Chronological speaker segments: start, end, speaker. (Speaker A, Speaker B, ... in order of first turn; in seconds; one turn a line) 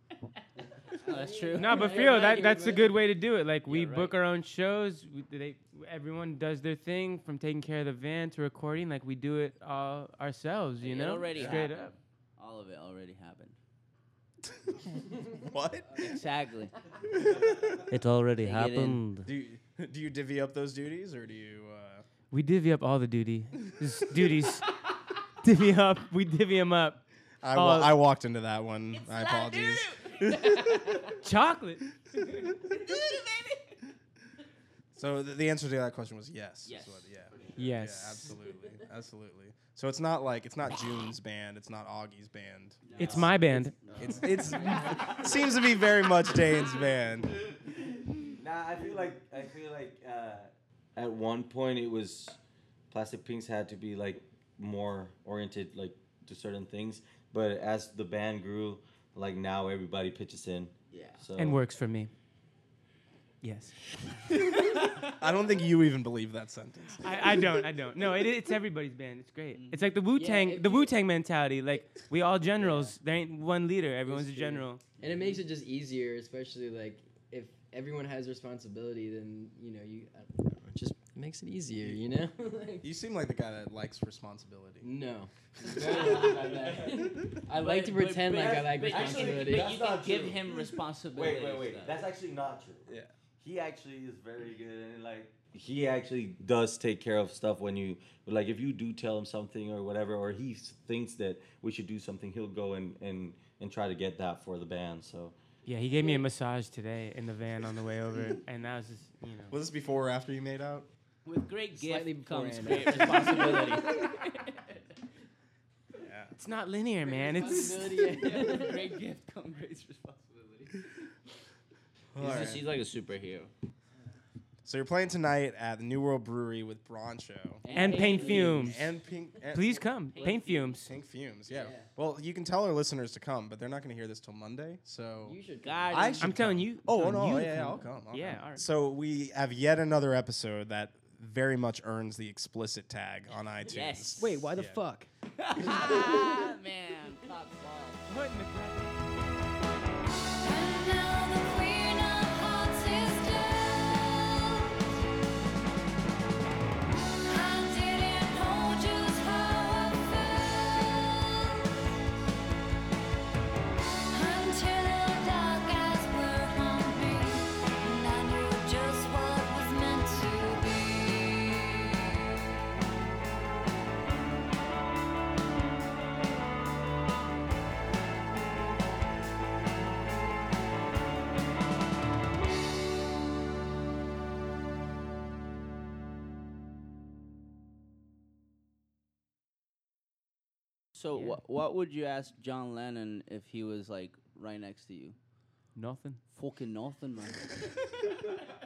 Speaker A: 0.9-2.4
Speaker B: 0.9-2.9
Speaker C: 1.5-11.9
Speaker A: 3.7-4.2
Speaker A: 10.8-13.6
Speaker D: 11.3-11.7
Speaker D: 14.5-16.2
Speaker B: 15.9-16.2
Speaker A: 16.0-16.7
Speaker D: 17.1-17.9
Speaker C: 17.9-19.3
Speaker A: 18.4-19.0
Speaker D: 19.2-22.1
Speaker C: 22.3-24.8
Speaker C: 25.4-27.0
Speaker D: 27.4-31.1
Speaker C: 27.5-27.9
Speaker A: 28.9-31.2
Speaker C: 31.2-31.8
Speaker A: 32.6-33.8
Speaker D: 34.9-42.8
Speaker A: 36.6-37.6
Speaker C: 37.6-38.3
Speaker A: 42.8-45.6
Speaker C: 43.0-43.8
Speaker E: 43.0-43.4
Speaker D: 44.0-47.4
Speaker B: 44.6-45.1
Speaker E: 47.7-52.4
Speaker E: 52.9-61.6
Speaker A: 60.9-61.2
Speaker C: 61.4-62.1
Speaker C: 63.4-63.7
Speaker D: 64.3-67.6
Speaker C: 67.0-74.8
Speaker A: 69.5-70.0
Speaker B: 70.1-71.0
Speaker B: 72.6-72.9
Speaker B: 74.1-82.9
Speaker A: 75.0-75.4
Speaker D: 82.8-84.9
Speaker B: 84.8-89.7
Speaker D: 85.8-86.3
Speaker A: 85.8-86.6
Speaker E: 86.3-86.8
Speaker A: 87.5-92.0
Speaker E: 88.3-105.3
Speaker D: 92.9-93.1
Speaker C: 105.7-109.5
Speaker D: 109.5-110.9
Speaker A: 111.2-114.8
Speaker B: 111.7-114.1
Speaker D: 116.0-116.3
Speaker C: 116.4-117.9
Speaker B: 117.0-119.0
Speaker A: 117.3-120.9
Speaker D: 122.1-122.6
Speaker A: 122.2-123.5
Speaker D: 124.6-127.6
Speaker B: 127.6-128.7
Speaker A: 127.7-128.6
Speaker C: 127.7-128.9
Speaker D: 128.2-135.4
Speaker C: 129.5-130.9
Speaker A: 130.1-130.8
Speaker B: 131.5-131.9
Speaker B: 135.2-136.3
Speaker A: 135.6-136.3
Speaker D: 135.9-144.8
Speaker C: 136.2-138.6
Speaker A: 143.6-144.4
Speaker B: 144.2-145.1
Speaker A: 145.4-148.0
Speaker B: 145.6-146.5
Speaker C: 148.1-149.0
Speaker F: 150.3-155.0
Speaker F: 157.2-161.8
Speaker F: 164.1-171.8
Speaker A: 190.9-195.2
Speaker C: 191.1-191.4
Speaker C: 195.8-196.2
Speaker A: 196.3-197.5